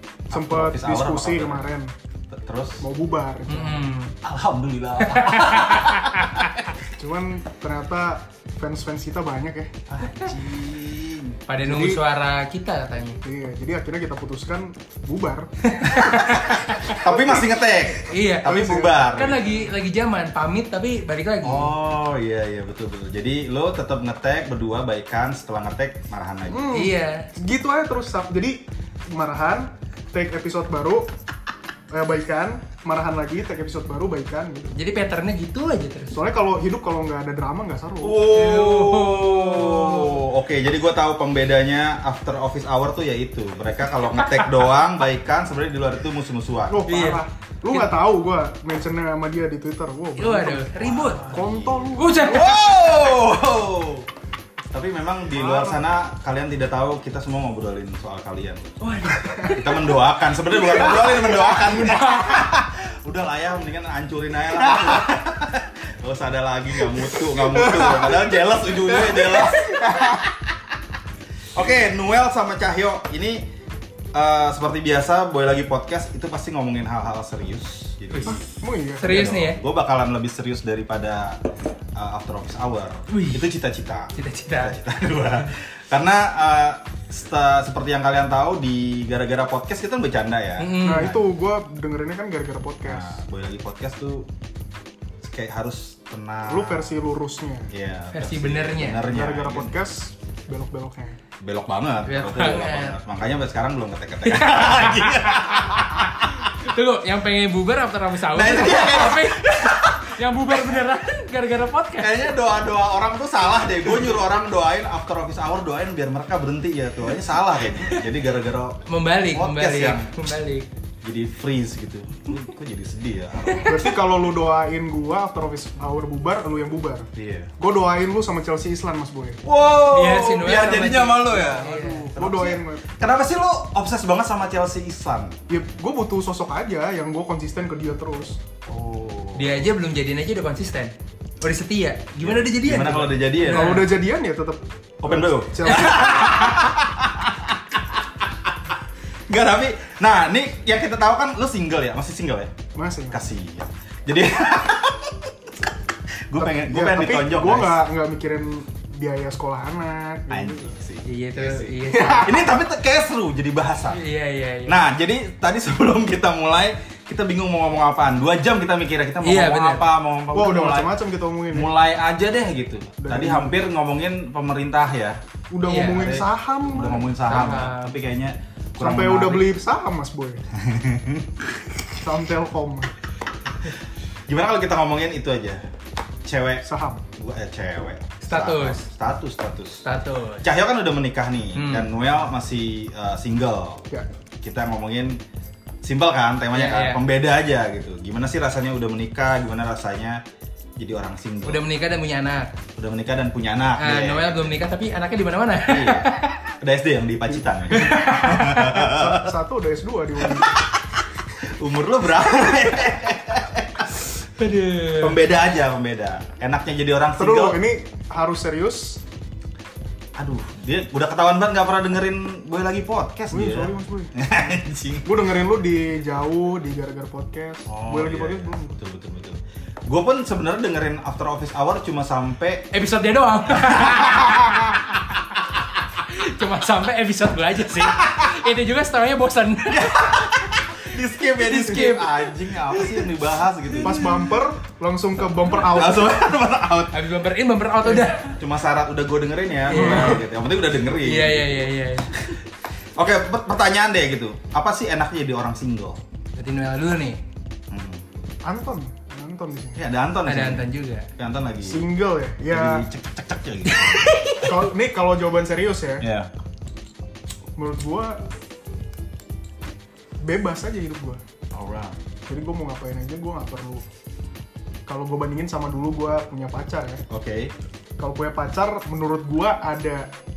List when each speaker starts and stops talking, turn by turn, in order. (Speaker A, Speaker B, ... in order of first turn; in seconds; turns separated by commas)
Speaker A: 0.3-1.6, Speaker B: 0.3-1.9, Speaker A: 2.3-2.8, Speaker B: 2.8-3.9, Speaker C: 3.5-4.2, Speaker A: 4.2-6.5, Speaker C: 5.0-6.5, Speaker B: 7.0-9.8, Speaker A: 9.9-11.4, Speaker C: 11.5-13.2, Speaker B: 11.6-12.0, Speaker B: 13.2-17.5, Speaker C: 15.6-17.0, Speaker A: 16.9-19.5, Speaker C: 18.1-18.6, Speaker B: 18.4-19.1, Speaker C: 19.1-21.7, Speaker A: 21.4-26.7, Speaker B: 26.5-28.6, Speaker C: 26.7-27.3, Speaker B: 29.1-31.1, Speaker B: 31.9-34.7, Speaker C: 34.7-36.2, Speaker B: 36.1-38.2, Speaker A: 38.0-46.8, Speaker C: 38.2-40.2, Speaker C: 44.1-44.5, Speaker B: 46.7-52.5, Speaker C: 46.9-48.0, Speaker C: 50.2-51.3, Speaker A: 50.8-54.1, Speaker C: 52.0-52.7, Speaker A: 54.7-59.0, Speaker B: 55.3-55.8, Speaker C: 58.8-59.8, Speaker A: 59.5-70.5, Speaker B: 60.7-61.7, Speaker C: 61.9-62.3, Speaker B: 67.5-68.2, Speaker B: 69.0-70.1, Speaker A: 71.5-73.5, Speaker A: 74.1-78.4, Speaker C: 78.1-78.5, Speaker B: 78.3-79.1, Speaker C: 79.0-79.6, Speaker A: 79.0-81.4, Speaker A: 81.9-91.3, Speaker C: 83.1-83.5, Speaker C: 84.1-84.8, Speaker C: 90.6-91.1, Speaker B: 90.8-93.2, Speaker A: 92.8-94.3, Speaker A: 95.2-97.0, Speaker B: 96.5-97.7, Speaker A: 97.7-99.7, Speaker C: 98.1-99.1, Speaker B: 99.0-101.2, Speaker A: 101.4-106.5, Speaker C: 102.0-103.0, Speaker C: 104.2-112.3, Speaker A: 108.3-110.8, Speaker A: 112.0-120.2, Speaker C: 118.9-120.7, Speaker A: 121.0-123.9, Speaker C: 123.4-123.8, Speaker B: 123.7-127.1, Speaker A: 127.1-127.5, Speaker B: 127.6-129.4, Speaker A: 129.4-135.3, Speaker C: 129.9-132.1, Speaker B: 131.5-132.9, Speaker B: 135.5-138.4, Speaker A: 138.7-139.7, Speaker C: 139.3-143.9, Speaker A: 142.2-143.9, Speaker B: 143.4-146.2, Speaker A: 145.0-148.7, Speaker C: 145.7-146.6, Speaker A: 149.3-152.5, Speaker B: 152.7-153.2, Speaker A: 153.1-155.7, Speaker A: 156.3-157.8, Speaker B: 156.4-160.8, Speaker A: 160.3-164.0, Speaker C: 161.0-162.5, Speaker B: 161.9-162.4, Speaker C: 163.9-164.7, Speaker A: 164.7-170.9, Speaker C: 169.2-169.9, Speaker B: 170.3-171.7, Speaker A: 171.5-175.2, Speaker B: 173.0-173.6, Speaker B: 175.5-177.4, Speaker C: 175.7-176.2, Speaker A: 175.8-179.5, Speaker C: 177.2-177.9, Speaker B: 178.8-180.4, Speaker A: 180.5-181.6, Speaker B: 181.9-182.9, Speaker A: 184.3-185.6, Speaker A: 186.2-189.8, Speaker B: 186.6-187.0, Speaker C: 188.2-188.8, Speaker C: 189.8-190.4, Speaker A: 190.4-193.8, Speaker C: 191.5-191.9, Speaker A: 194.4-195.2, Speaker A: 195.8-200.2, Speaker C: 196.5-197.0, Speaker A: 200.8-201.7, Speaker C: 201.4-202.5, Speaker A: 202.8-204.6, Speaker C: 203.8-206.3, Speaker A: 205.6-209.3, Speaker C: 207.7-208.7, Speaker B: 208.6-210.6, Speaker A: 210.2-210.9, Speaker A: 211.4-214.0, Speaker C: 214.1-215.2, Speaker A: 215.0-217.6, Speaker B: 217.2-219.0, Speaker A: 220.2-225.2, Speaker B: 223.3-224.1, Speaker B: 225.0-228.8, Speaker A: 227.7-232.7, Speaker C: 232.7-234.7, Speaker A: 233.5-235.4, Speaker C: 236.0-240.3, Speaker A: 237.8-238.3, Speaker A: 239.7-244.3, Speaker C: 241.3-243.0, Speaker C: 243.7-244.1, Speaker B: 243.8-246.3, Speaker A: 245.6-246.9, Speaker C: 246.9-248.4, Speaker A: 248.3-251.7, Speaker C: 249.7-250.2, Speaker B: 249.7-250.2, Speaker C: 250.9-252.3, Speaker A: 253.0-256.0, Speaker C: 256.4-257.2, Speaker A: 257.7-258.0, Speaker B: 258.4-259.8, Speaker A: 259.8-261.8, Speaker C: 260.2-261.1, Speaker B: 261.6-262.8, Speaker A: 262.5-264.1, Speaker C: 263.6-264.5, Speaker B: 264.4-266.1, Speaker A: 266.0-266.3, Speaker B: 267.6-268.3, Speaker B: 270.2-271.2, Speaker A: 271.5-272.0, Speaker B: 272.3-273.8, Speaker B: 274.9-277.1, Speaker A: 277.1-277.5, Speaker B: 278.0-280.1